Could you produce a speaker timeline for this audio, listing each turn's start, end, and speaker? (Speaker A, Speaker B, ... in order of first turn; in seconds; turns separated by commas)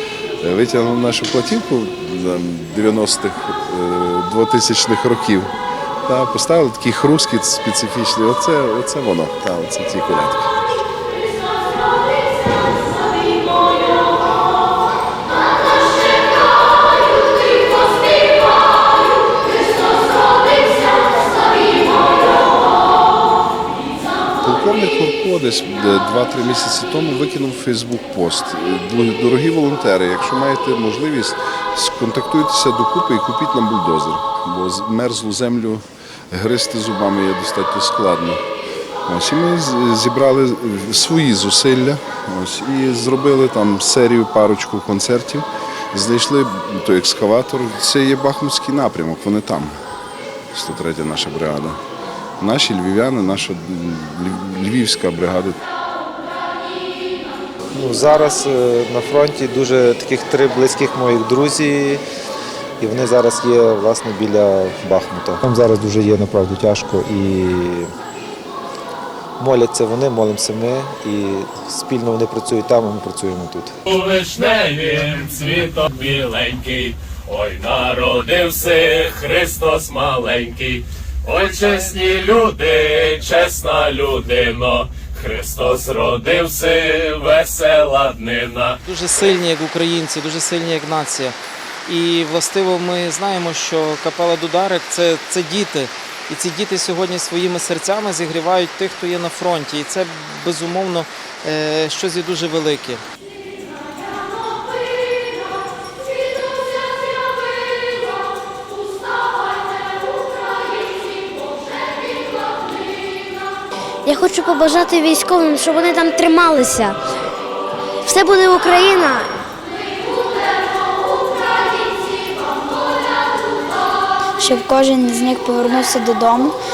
Speaker A: 0.4-5.5, Speaker A: 6.0-10.7, Speaker A: 24.4-38.4, Speaker A: 39.0-49.7, Speaker A: 50.5-51.8, Speaker A: 52.4-55.5, Speaker B: 57.7-62.0, Speaker B: 62.8-67.9, Speaker B: 69.4-73.7, Speaker C: 73.9-88.8, Speaker D: 88.8-103.0, Speaker E: 114.0-117.0, Speaker E: 118.0-119.3, Speaker F: 124.4-126.6